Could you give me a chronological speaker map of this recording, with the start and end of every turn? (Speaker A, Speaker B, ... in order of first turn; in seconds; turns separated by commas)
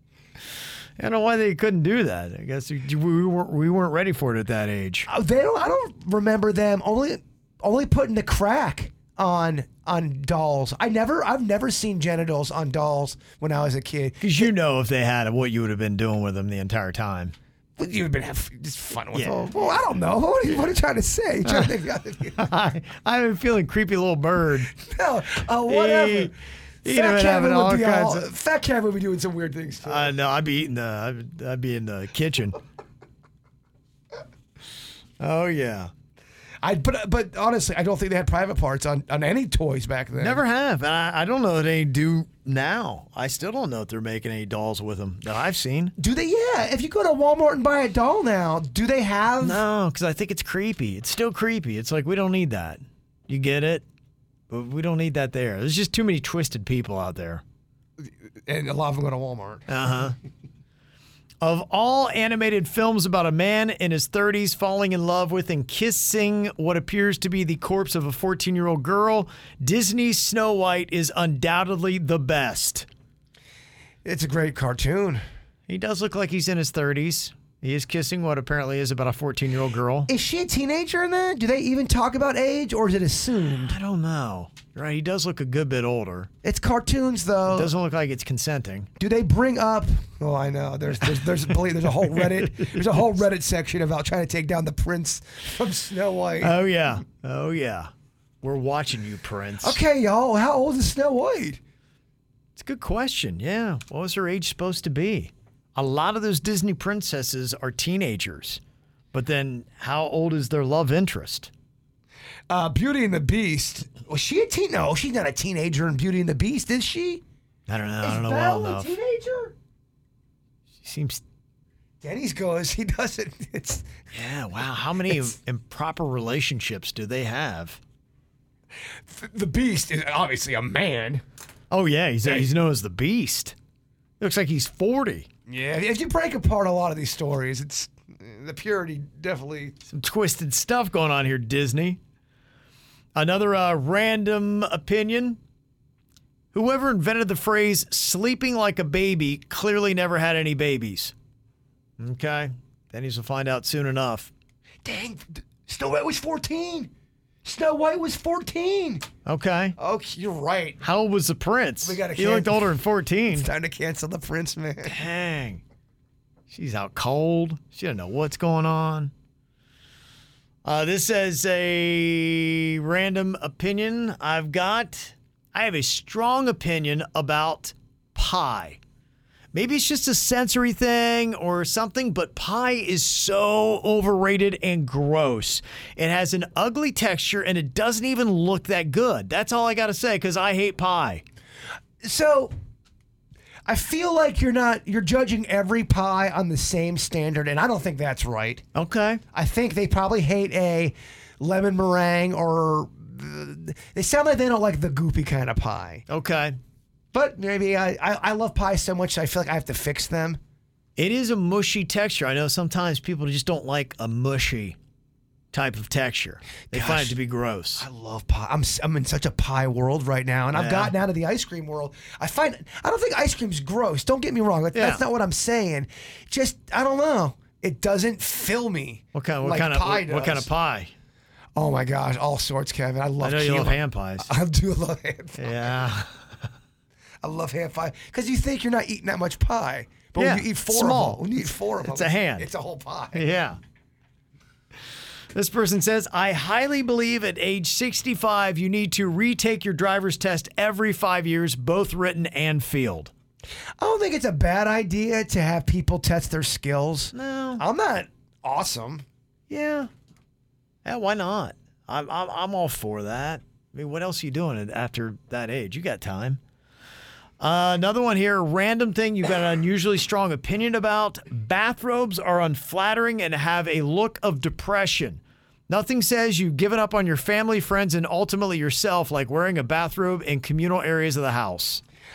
Speaker A: 1.0-5.1, Speaker B: 5.0-14.5, Speaker A: 14.2-17.3, Speaker B: 17.8-22.5, Speaker A: 19.1-19.5, Speaker A: 21.4-21.7, Speaker A: 22.3-24.7, Speaker B: 24.8-30.1, Speaker A: 25.6-26.3, Speaker A: 26.8-28.3, Speaker A: 29.8-32.6, Speaker A: 35.2-35.9, Speaker B: 36.6-40.4, Speaker A: 40.2-45.9, Speaker B: 46.0-49.6, Speaker A: 49.4-53.8, Speaker A: 54.5-57.4, Speaker B: 58.5-59.8, Speaker A: 59.7-60.1, Speaker A: 61.4-72.8, Speaker B: 74.0-75.2, Speaker A: 75.7-80.1, Speaker B: 80.0-83.8, Speaker A: 83.6-86.3, Speaker B: 86.4-87.7, Speaker A: 87.5-88.9, Speaker B: 89.0-96.5, Speaker A: 92.0-92.7, Speaker A: 96.4-97.9, Speaker A: 98.4-99.8, Speaker B: 99.6-101.6, Speaker A: 102.5-108.6, Speaker A: 109.1-111.5, Speaker B: 112.5-117.2, Speaker A: 117.7-118.9, Speaker B: 118.0-119.5, Speaker A: 120.8-121.2, Speaker B: 122.0-123.8, Speaker A: 124.1-127.8, Speaker B: 129.1-131.2, Speaker A: 131.7-133.5, Speaker B: 132.2-132.5, Speaker A: 134.2-135.3, Speaker B: 135.5-139.8, Speaker A: 139.9-142.0, Speaker A: 143.1-145.4, Speaker A: 146.5-151.1, Speaker A: 152.0-154.3, Speaker B: 154.8-156.9, Speaker B: 157.4-159.0, Speaker A: 159.2-159.8, Speaker B: 159.8-160.8, Speaker A: 160.8-163.5, Speaker B: 161.8-162.7, Speaker B: 163.3-165.0, Speaker A: 164.8-165.6, Speaker A: 166.5-169.1, Speaker A: 170.6-178.8, Speaker A: 179.5-191.2, Speaker B: 192.0-192.5, Speaker B: 193.7-198.6, Speaker A: 198.7-199.2, Speaker B: 199.3-206.0, Speaker A: 206.1-206.6, Speaker B: 207.1-210.4, Speaker A: 211.0-214.8, Speaker A: 215.5-217.8, Speaker B: 216.7-217.2, Speaker B: 217.8-230.5, Speaker A: 220.5-220.9, Speaker A: 224.7-225.0, Speaker A: 229.1-230.9, Speaker B: 231.5-235.9, Speaker A: 233.2-234.3, Speaker A: 235.4-236.2, Speaker B: 237.2-243.4, Speaker A: 240.2-241.3, Speaker A: 241.8-242.5, Speaker A: 243.1-243.6, Speaker A: 245.3-253.1, Speaker B: 253.8-259.1, Speaker A: 257.1-257.6, Speaker A: 259.5-259.9, Speaker A: 260.8-266.4, Speaker A: 267.4-281.8